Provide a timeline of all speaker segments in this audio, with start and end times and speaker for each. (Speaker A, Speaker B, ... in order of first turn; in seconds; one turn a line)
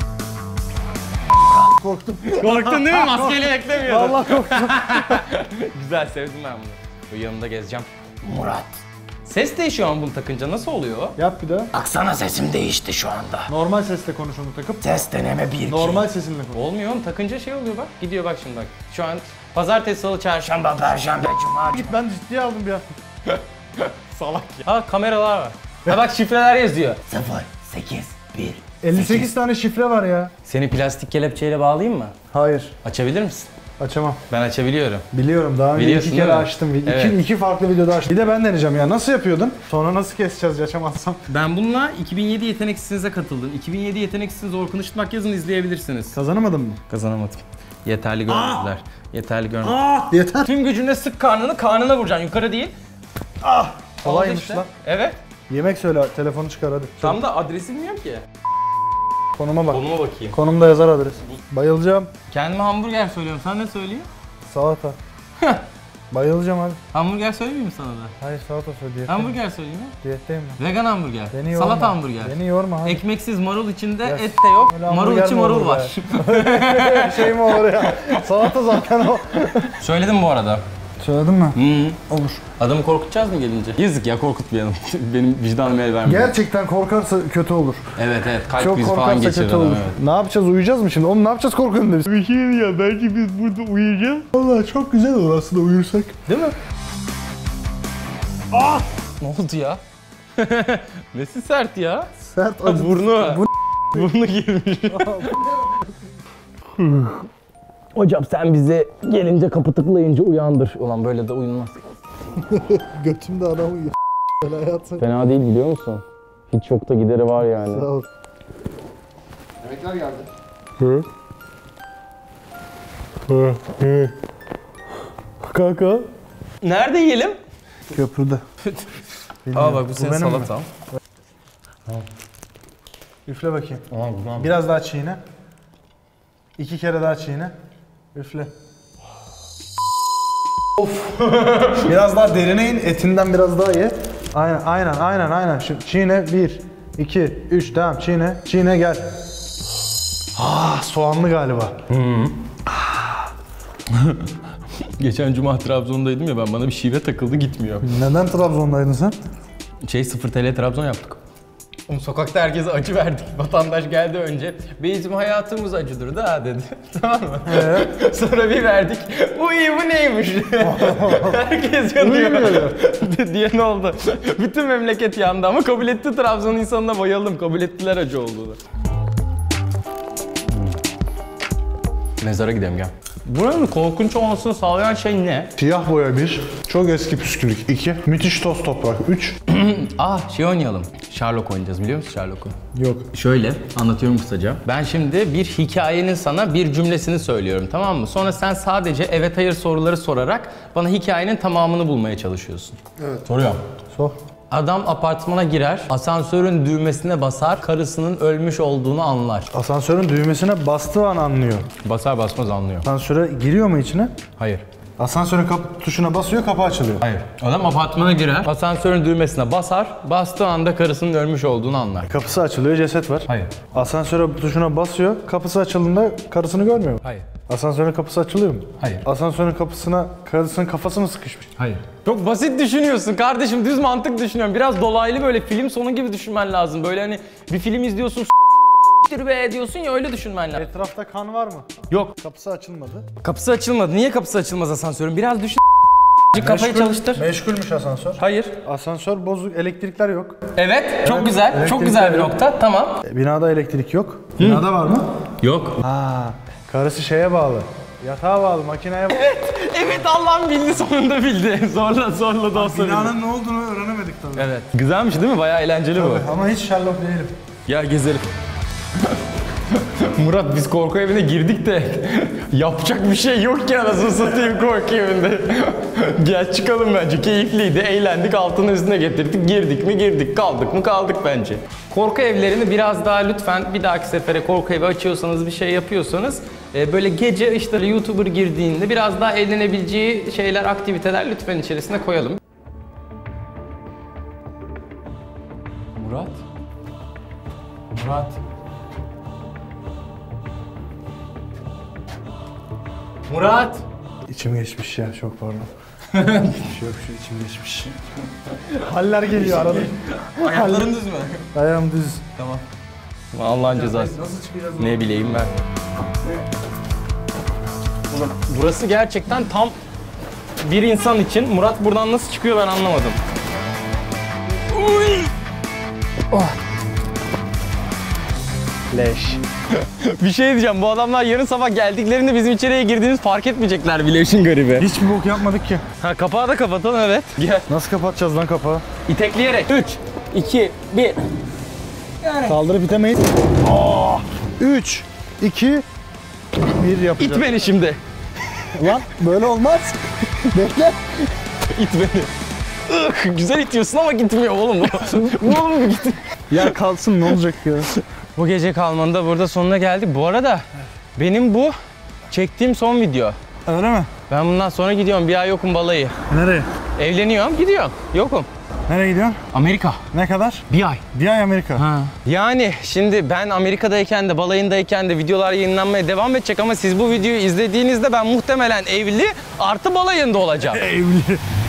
Speaker A: 1.5-5.3
Speaker B: 2.3-11.2
Speaker A: 11.2-11.7
Speaker B: 11.7-13.5
Speaker A: 13.5-14.9
Speaker B: 14.8-21.9
Speaker A: 15.6-16.6
Speaker A: 21.6-22.8
Speaker B: 23.3-29.3
Speaker A: 28.8-30.3
Speaker B: 30.4-32.1
Speaker A: 32.3-32.7
Speaker B: 32.8-33.5
Speaker A: 33.8-34.2
Speaker B: 34.3-35.0
Speaker A: 35.1-41.2
Speaker B: 35.7-37.2
Speaker B: 41.3-46.2
Speaker A: 46.1-46.8
Speaker B: 46.9-49.8
Speaker A: 48.3-48.7
Speaker A: 49.6-50.5
Speaker B: 50.4-52.7
Speaker A: 53.4-54.7
Speaker B: 54.0-55.2
Speaker A: 55.5-57.2
Speaker B: 57.0-58.2
Speaker A: 59.4-62.1
Speaker B: 59.7-60.4
Speaker B: 62.3-64.1
Speaker A: 64.5-65.0
Speaker B: 65.4-65.6
Speaker A: 66.1-66.8
Speaker B: 66.9-68.1
Speaker A: 68.2-69.3
Speaker B: 69.1-69.9
Speaker A: 70.0-70.6
Speaker B: 70.6-78.3
Speaker A: 71.3-73.0
Speaker A: 74.0-79.7
Speaker B: 79.6-80.6
Speaker A: 81.0-82.4
Speaker B: 81.5-86.3
Speaker A: 86.0-87.8
Speaker B: 88.0-90.0
Speaker A: 88.5-92.1
Speaker B: 92.1-94.3
Speaker A: 94.3-96.2
Speaker B: 96.2-96.5
Speaker A: 98.5-98.8
Speaker B: 99.2-99.8
Speaker B: 100.3-102.1
Speaker A: 102.2-104.1
Speaker B: 102.6-105.6
Speaker A: 104.9-105.9
Speaker A: 106.8-107.1
Speaker B: 107.9-111.8
Speaker A: 112.4-115.0
Speaker B: 115.0-117.9
Speaker A: 117.6-118.1
Speaker A: 119.7-120.2
Speaker A: 120.8-121.1
Speaker A: 123.3-124.1
Speaker A: 125.4-126.1
Speaker B: 126.6-127.4
Speaker A: 127.9-128.4
Speaker A: 129.4-130.5
Speaker B: 129.5-130.7
Speaker A: 133.2-133.8
Speaker B: 133.9-134.5
Speaker A: 134.3-135.2
Speaker A: 136.6-137.5
Speaker A: 138.1-138.5
Speaker B: 140.8-141.7
Speaker A: 141.7-149.1
Speaker A: 150.3-151.8
Speaker B: 151.9-152.4
Speaker A: 152.8-153.1
Speaker B: 153.9-154.2
Speaker B: 154.8-157.9
Speaker A: 157.8-159.2
Speaker B: 159.8-161.2
Speaker B: 161.9-178.6
Speaker A: 167.4-167.9
Speaker A: 170.6-171.4
Speaker A: 172.0-172.8
Speaker B: 182.2-185.5
Speaker A: 185.6-189.4
Speaker B: 189.4-192.6
Speaker A: 192.7-193.1
Speaker B: 193.1-203.6
Speaker A: 203.0-203.2
Speaker B: 204.5-209.5
Speaker A: 209.5-211.7
Speaker B: 211.8-212.9
Speaker A: 212.8-214.1
Speaker B: 214.4-214.6
Speaker A: 215.0-217.0
Speaker B: 217.0-222.1
Speaker A: 222.1-231.5
Speaker B: 223.3-223.5
Speaker B: 227.0-227.3
Speaker B: 228.8-229.1
Speaker B: 231.6-238.3
Speaker B: 239.0-240.7
Speaker A: 240.5-243.1
Speaker B: 241.9-242.1
Speaker B: 243.2-245.6
Speaker B: 246.3-247.2
Speaker A: 246.3-250.4
Speaker B: 248.2-248.5
Speaker B: 250.5-253.0
Speaker A: 251.0-252.3
Speaker A: 253.0-255.1
Speaker B: 254.4-254.7
Speaker B: 255.4-255.8
Speaker A: 255.8-259.3
Speaker B: 259.1-263.1
Speaker A: 262.5-264.5
Speaker B: 264.4-266.3
Speaker A: 265.9-267.3
Speaker B: 267.7-268.3
Speaker B: 269.7-292.4
Speaker B: 295.9-296.4
Speaker B: 297.9-298.4
Speaker B: 303.3-303.8
Speaker A: 304.3-305.7
Speaker B: 306.1-306.7
Speaker A: 306.5-308.0
Speaker A: 308.7-310.9
Speaker B: 309.3-311.4
Speaker A: 311.5-312.2
Speaker B: 312.4-312.6
Speaker B: 313.3-314.2
Speaker A: 313.7-315.2
Speaker B: 314.8-315.5
Speaker B: 318.1-319.8
Speaker B: 320.6-323.2
Speaker B: 324.7-325.3
Speaker A: 328.9-329.4
Speaker B: 328.9-334.9
Speaker A: 334.8-335.8
Speaker B: 336.0-337.6
Speaker A: 337.7-338.8
Speaker B: 339.1-341.2
Speaker B: 342.2-342.6
Speaker A: 342.4-345.8
Speaker A: 346.5-347.5
Speaker B: 347.2-348.0
Speaker A: 348.7-351.0
Speaker B: 351.7-352.3
Speaker B: 352.9-356.7
Speaker A: 356.5-357.9
Speaker B: 357.9-361.7
Speaker B: 362.3-363.4
Speaker A: 363.6-364.1
Speaker B: 364.3-366.1
Speaker A: 366.3-366.7
Speaker B: 367.0-368.5
Speaker A: 368.9-369.4
Speaker B: 369.5-370.0
Speaker A: 370.1-371.9
Speaker B: 370.7-371.0
Speaker B: 371.8-380.9
Speaker A: 380.6-381.4